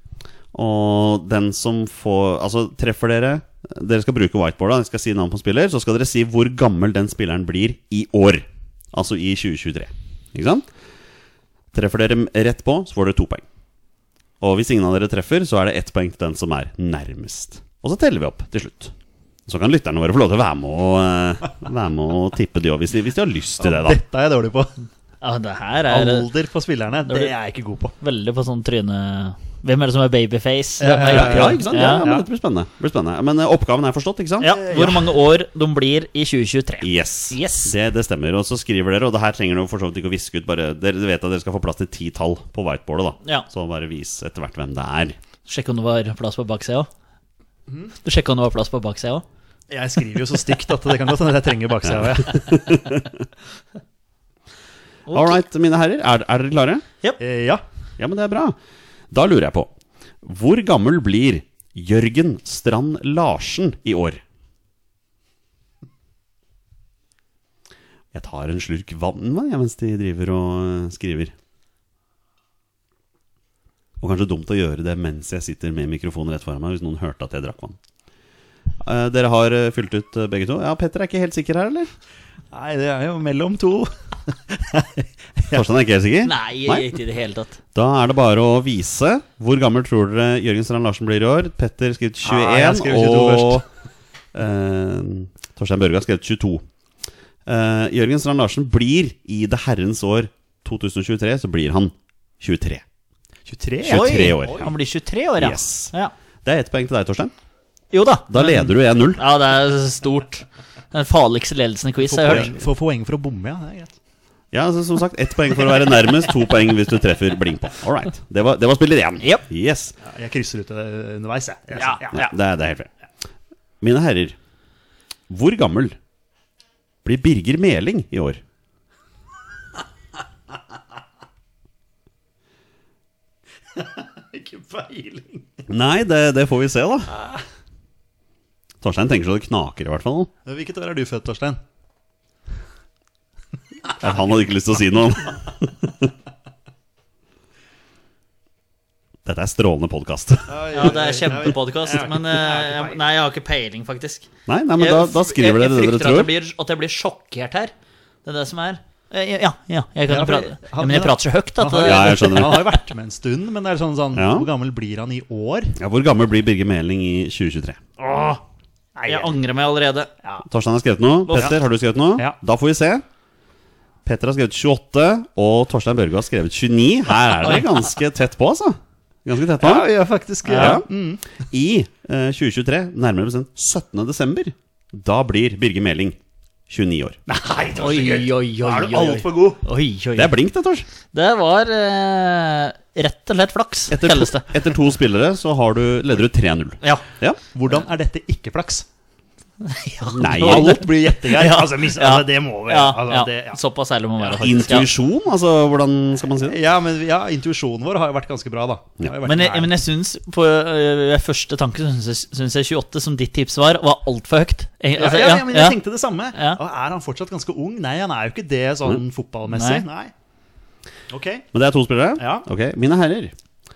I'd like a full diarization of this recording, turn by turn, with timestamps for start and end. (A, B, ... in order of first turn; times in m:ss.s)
0:00.5-0:10.7 A
0:11.7-0:13.4 A
0:14.4-0:18.9 A
0:19.5-0:24.0 A
0:23.6-0:24.7 B
0:25.2-0:26.3 C
0:25.9-0:27.9 B
0:27.1-0:27.3 C
0:28.0-0:32.1 C
0:30.8-0:32.3 B
0:31.0-0:34.5 A
0:34.4-0:37.7 C
0:34.5-0:35.2 B
0:36.8-0:45.2 A
0:45.4-0:46.9 C
0:47.7-0:47.9 B
0:48.0-0:49.2 C
0:49.7-0:52.7 B
0:52.2-0:53.2 A
0:55.1-0:55.4 C
0:55.1-0:56.8 A
0:57.2-0:57.6 B
0:58.0-0:58.6 A
0:59.1-0:59.7 A
1:00.2-1:04.2 A
1:08.1-1:11.3 A
1:14.0-1:17.8 A
1:18.8-1:21.9 A
1:22.5-1:25.6 B
1:25.5-1:27.0 A
1:26.2-1:27.6 C
1:27.8-1:33.6 A
1:32.2-1:33.6 B
1:34.3-1:36.6 A
1:37.5-1:42.8 A
1:43.5-1:44.7 B
1:43.8-1:44.7 A
1:43.9-1:46.1 C
1:45.4-1:45.9 A
1:46.4-1:47.3 A
1:47.9-1:52.6 C
1:48.3-1:49.2 A
1:52.0-1:53.9 B
1:52.2-1:52.5 A
1:54.5-2:00.0 A
1:59.2-1:59.5 C
2:00.0-2:02.3 B
2:01.8-2:02.0 C
2:02.1-2:02.9 A
2:03.8-2:04.4 A
2:05.3-2:06.0 A
2:07.0-2:08.4 A
2:13.8-2:15.6 B
2:15.7-2:17.1 A
2:18.8-2:20.3 A
2:20.5-2:21.6 B
2:24.0-2:26.1 A
2:29.3-2:31.0 A
2:30.5-2:33.1 B
2:30.7-2:37.7 C
2:34.5-2:36.3 A
2:38.2-2:42.7 C
2:40.1-2:45.8 B
2:41.8-2:42.8 A
2:44.1-2:44.5 A
2:45.8-2:47.8 A
2:48.0-2:48.4 C
2:49.0-2:49.4 B
2:49.1-2:50.1 C
2:50.5-2:53.0 A
2:51.3-2:51.6 C
2:54.0-2:59.9 A
2:57.4-2:57.7 C
2:59.6-3:01.2 B
3:00.5-3:00.8 C
3:00.5-3:00.9 A
3:01.5-3:06.2 A
3:06.7-3:07.2 A
3:07.3-3:09.6 B
3:07.8-3:10.4 C
3:10.2-3:10.9 A
3:11.1-3:14.6 C
3:13.9-3:17.4 A
3:17.5-3:18.8 B
3:19.6-3:24.9 C
3:20.1-3:23.6 B
3:20.2-3:20.8 A
3:24.2-3:26.6 A
3:26.4-3:29.8 B
3:29.2-3:35.8 C
3:35.0-3:40.1 B
3:36.3-3:36.6 C
3:39.5-3:39.8 C
3:41.1-3:41.5 B
3:41.5-3:43.3 A
3:42.2-3:42.5 B